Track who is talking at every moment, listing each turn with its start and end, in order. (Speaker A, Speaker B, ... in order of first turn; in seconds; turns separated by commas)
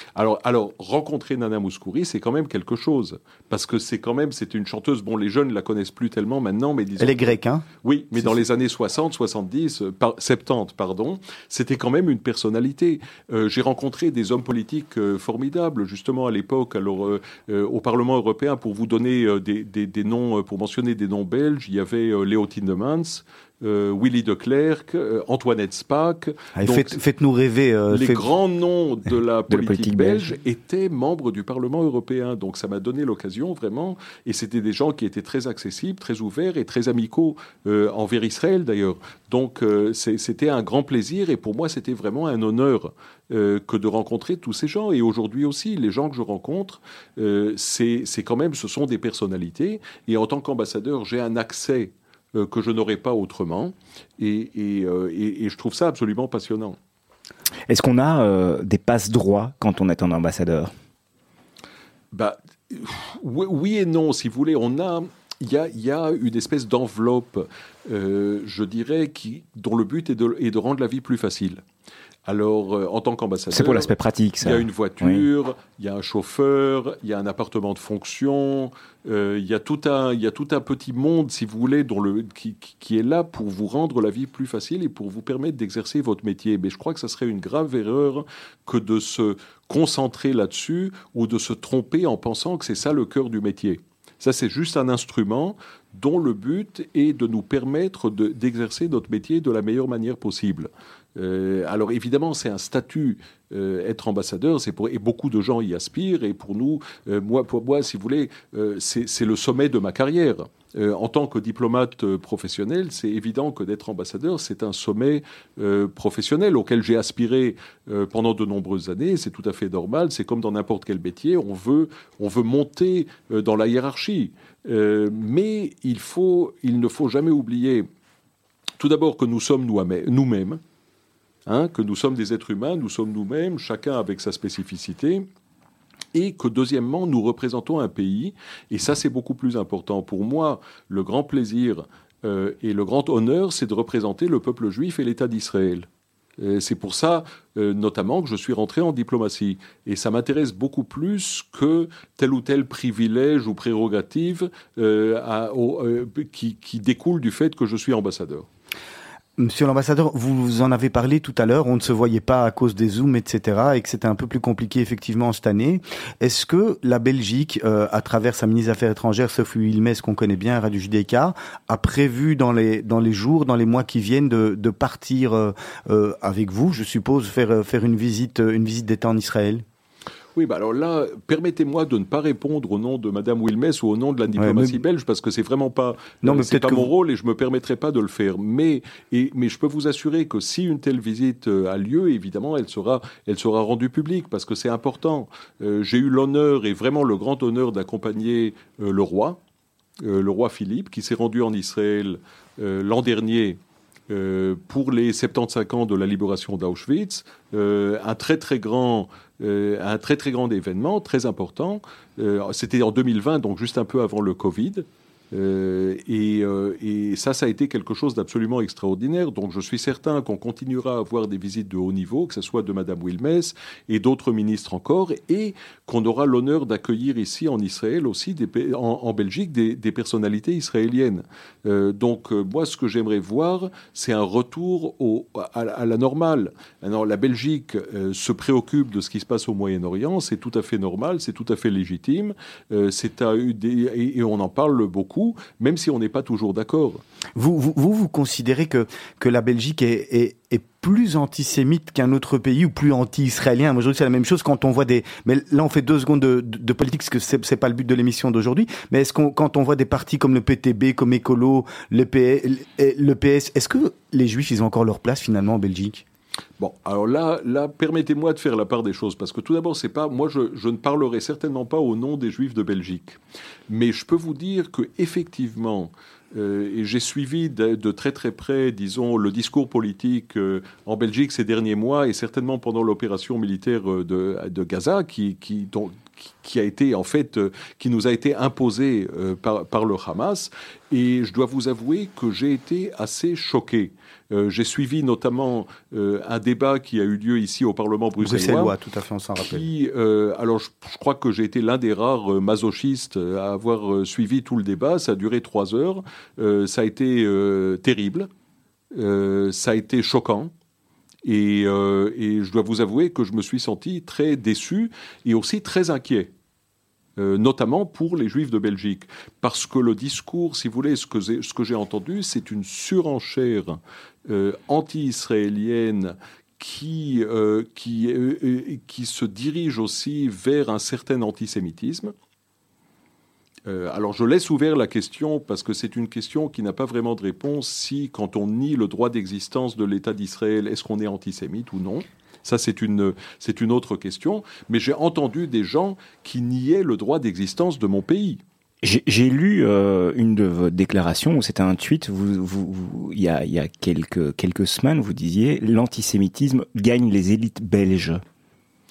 Speaker A: 0.1-27.0, Speaker B: 7.0-8.4, Speaker B: 26.6-28.3, Speaker A: 27.9-56.8, Speaker C: 29.5-30.3, Speaker C: 57.7-60.7, Speaker A: 62.1-71.6, Speaker A: 72.2-127.9, Speaker C: 73.5-75.3, Speaker A: 128.8-130.6, Speaker A: 131.5-135.3, Speaker A: 136.1-145.9, Speaker A: 146.4-158.5, Speaker B: 159.4-179.7, Speaker A: 180.4-199.4, Speaker B: 184.4-184.8, Speaker B: 186.2-186.9, Speaker A: 200.0-247.0, Speaker B: 247.4-266.0, Speaker A: 266.6-273.2, Speaker A: 273.7-298.7, Speaker B: 298.2-299.6, Speaker A: 299.4-308.3, Speaker A: 308.9-310.5, Speaker A: 311.2-316.3, Speaker A: 317.2-332.1, Speaker A: 333.7-348.4, Speaker C: 348.8-358.2